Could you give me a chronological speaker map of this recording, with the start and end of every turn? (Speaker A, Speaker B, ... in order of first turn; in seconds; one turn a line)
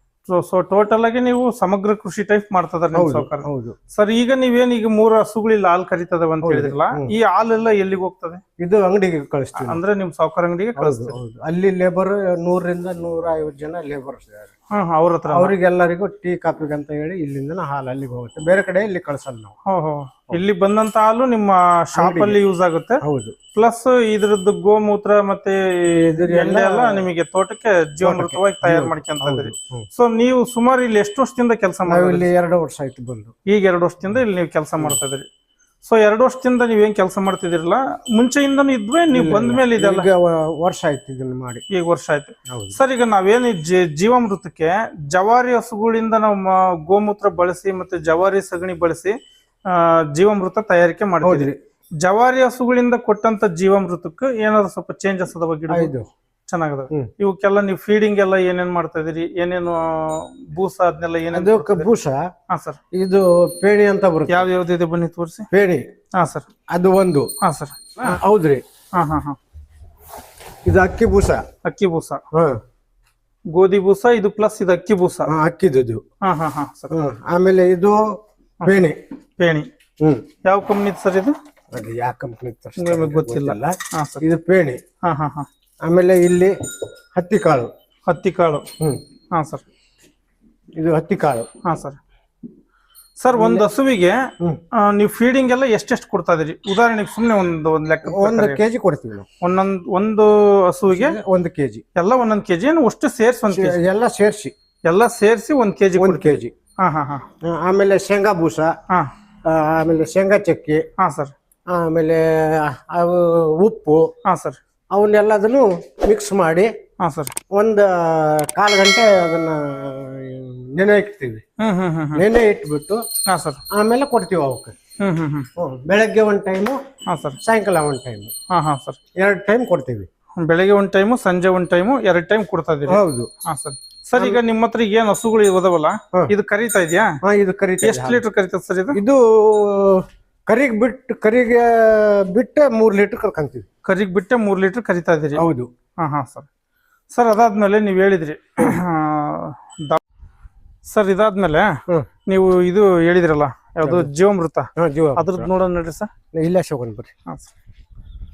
Speaker A: 0.3-8.4
Speaker B: 2.9-3.8
Speaker B: 6.4-7.1
Speaker B: 8.6-9.8
Speaker A: 9.6-11.2
Speaker B: 10.8-14.5
Speaker A: 14.7-15.5
Speaker B: 15.3-19.5
Speaker A: 19.7-23.0
Speaker B: 21.9-22.4
Speaker B: 23.0-23.4
Speaker A: 23.5-32.3
Speaker B: 26.1-27.1
Speaker B: 28.0-29.9
Speaker B: 31.9-33.3
Speaker A: 33.5-35.2
Speaker A: 35.8-40.1
Speaker B: 39.1-41.6
Speaker A: 41.7-49.1
Speaker B: 42.5-42.8
Speaker A: 49.7-51.5
Speaker B: 51.2-51.5
Speaker A: 52.0-55.9
Speaker B: 55.7-56.0
Speaker A: 56.5-61.9
Speaker B: 61.3-62.3
Speaker A: 62.5-62.8
Speaker B: 62.9-64.4
Speaker A: 64.3-65.5
Speaker B: 65.5-65.9
Speaker A: 66.1-66.5
Speaker B: 66.7-67.3
Speaker A: 67.4-68.2
Speaker B: 68.0-68.6
Speaker A: 68.9-69.4
Speaker B: 70.6-71.4
Speaker A: 71.6-72.2
Speaker B: 72.3-72.6
Speaker A: 73.5-75.3
Speaker B: 75.3-76.0
Speaker A: 76.2-76.9
Speaker B: 76.9-79.0
Speaker A: 78.6-79.7
Speaker B: 80.0-80.2
Speaker A: 80.4-81.3
Speaker B: 81.7-84.8
Speaker A: 82.8-84.3
Speaker A: 85.0-85.5
Speaker B: 85.8-86.5
Speaker B: 87.1-87.7
Speaker A: 88.1-88.6
Speaker A: 89.3-89.6
Speaker B: 90.8-91.5
Speaker A: 91.6-92.0
Speaker A: 93.2-94.2
Speaker B: 93.3-93.7
Speaker A: 94.8-98.6
Speaker B: 98.0-99.3
Speaker A: 99.4-101.2
Speaker B: 100.9-101.8
Speaker A: 101.9-103.8
Speaker B: 103.5-104.5
Speaker A: 104.8-107.2
Speaker B: 106.0-106.5
Speaker B: 107.4-108.7
Speaker B: 109.4-110.8
Speaker A: 111.0-111.3
Speaker B: 111.7-114.0
Speaker A: 114.2-114.6
Speaker B: 114.9-116.7
Speaker A: 117.0-117.3
Speaker B: 117.5-121.4
Speaker A: 121.6-122.2
Speaker B: 122.1-123.0
Speaker A: 123.2-123.6
Speaker B: 123.7-124.7
Speaker A: 125.0-125.5
Speaker B: 125.6-126.8
Speaker A: 127.1-127.4
Speaker B: 127.4-128.3
Speaker A: 128.5-129.0
Speaker B: 129.2-130.1
Speaker A: 130.4-137.1
Speaker B: 132.9-133.3
Speaker B: 134.2-134.4
Speaker B: 137.2-138.2
Speaker A: 137.8-139.0
Speaker B: 138.9-143.6
Speaker A: 143.8-145.4
Speaker B: 145.3-145.7
Speaker A: 146.0-146.5
Speaker A: 147.1-150.0
Speaker A: 150.8-156.1
Speaker B: 153.8-154.1
Speaker B: 154.8-155.5
Speaker B: 156.3-157.1
Speaker A: 157.3-157.5